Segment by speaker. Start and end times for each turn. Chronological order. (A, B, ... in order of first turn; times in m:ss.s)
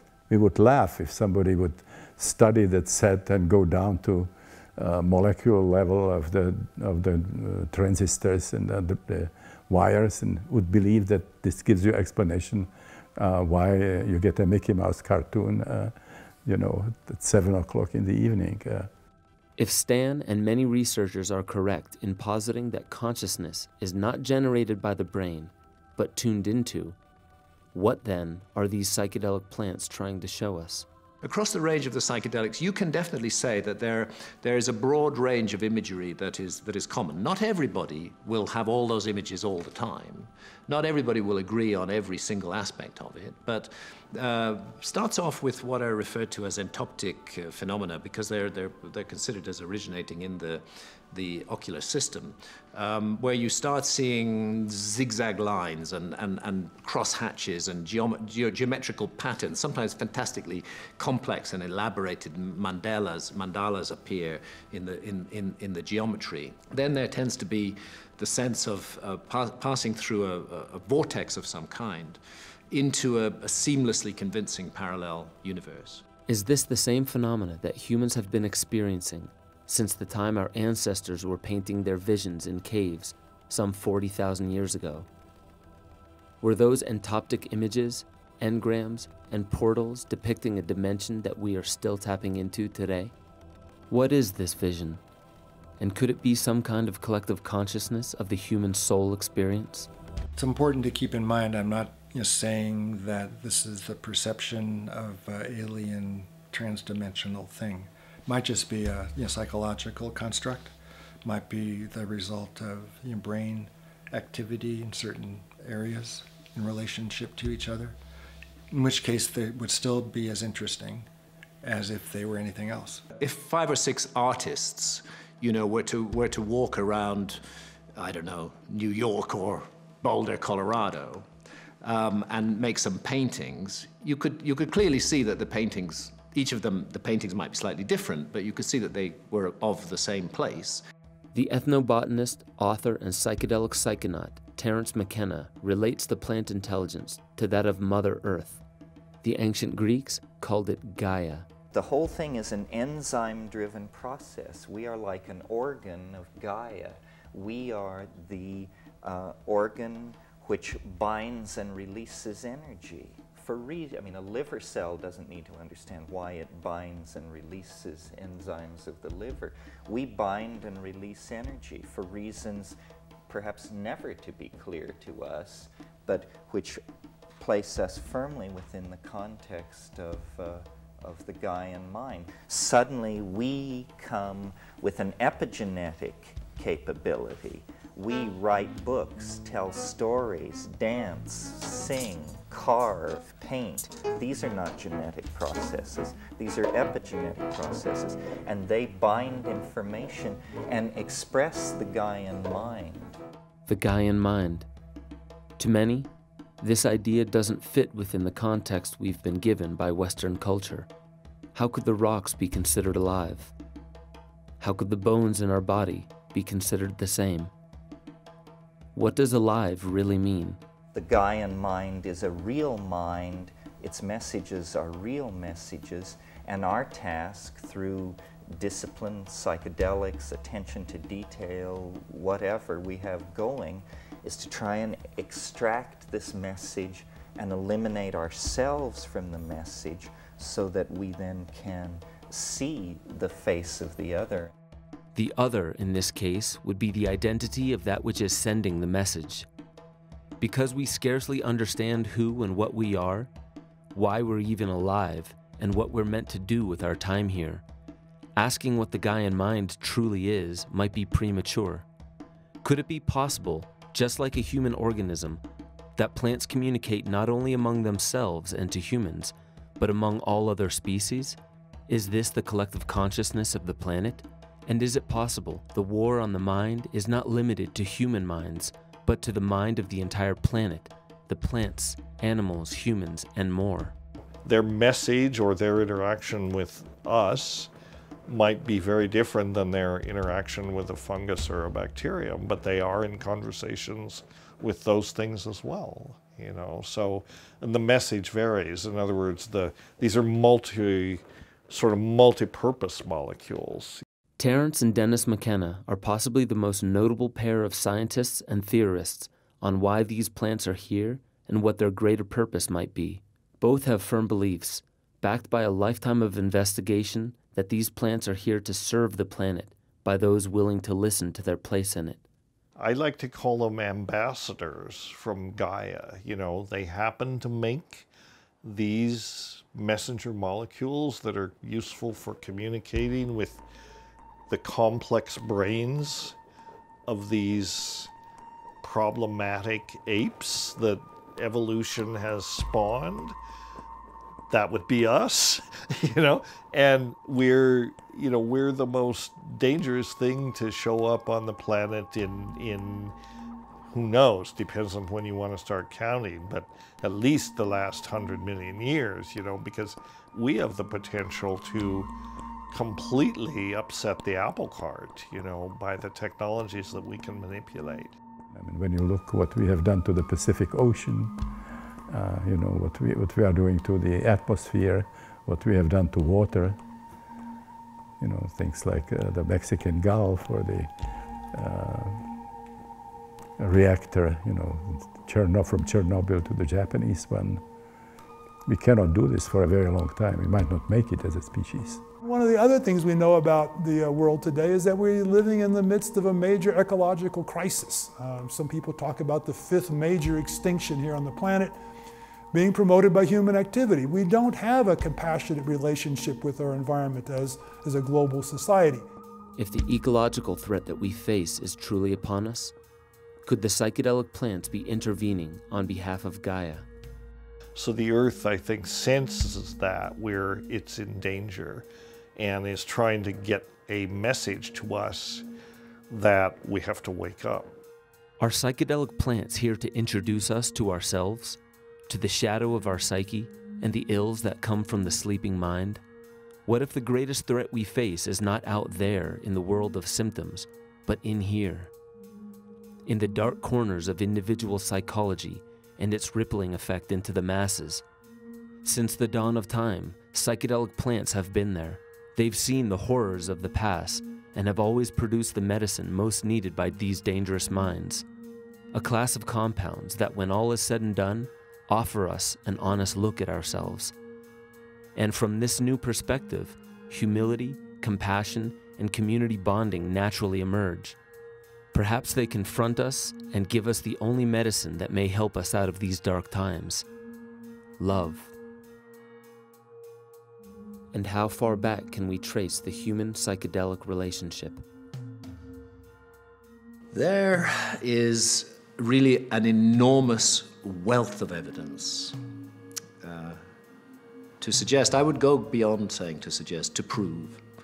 0:00.3-0:18.9 A
0:19.6-0:27.0 B
0:27.7-0:30.9 B
0:31.2-1:12.2 C
1:12.7-1:16.0 C
1:16.3-1:25.1 B
1:26.4-1:33.1 B
1:33.9-1:35.0 B
1:35.8-1:39.9 B
1:40.4-1:58.0 D
1:58.7-2:01.1 D
2:01.6-2:03.0 D
2:03.2-2:07.4 C
2:08.0-2:11.3 C
2:11.8-2:20.8 C
2:21.3-2:28.6 B
2:29.2-2:31.5 B
2:31.7-2:52.8 E
2:53.3-2:56.8 E
2:57.4-3:23.2 E
3:23.7-3:24.7 B
3:25.6-3:26.1 B
3:26.6-3:30.9 B
3:31.6-3:33.5 B
3:34.6-3:37.5 B
3:39.0-3:40.6 B
3:40.9-4:04.5 E
4:05.2-4:09.5 B
4:10.4-4:13.3 B
4:13.9-4:17.6 B
4:18.4-4:21.9 B
4:22.6-4:25.4 B
4:26.0-4:31.4 B
4:31.9-4:44.0 B
4:44.4-4:47.7 F
4:48.3-5:04.0 F
5:04.4-5:22.2 B
5:22.8-5:28.1 F
5:28.6-5:33.6 F
5:34.5-5:36.4 F
5:37.1-5:38.1 F
5:38.8-5:43.4 F
5:44.5-5:53.1 F
5:53.9-6:02.1 F
6:02.7-6:08.1 F
6:08.5-6:11.5 A
6:12.1-6:16.8 A
6:18.2-6:20.9 A
6:21.5-6:22.3 A
6:23.6-6:27.6 A
6:28.7-6:32.0 A
6:32.2-6:41.8 G
6:42.5-6:49.1 G
6:49.6-6:52.8 B
6:53.5-6:56.9 B
6:57.8-7:05.4 F
7:06.1-7:07.7 F
7:08.4-7:16.0 B
7:16.7-7:21.9 B
7:23.1-7:28.0 B
7:28.8-7:38.2 B
7:38.9-7:44.1 B
7:45.2-7:51.2 B
7:51.9-7:57.0 B
7:58.0-7:58.5 B
8:01.1-8:04.8 B
8:07.1-8:12.4 C
8:13.2-8:13.6 C
8:14.6-8:17.7 C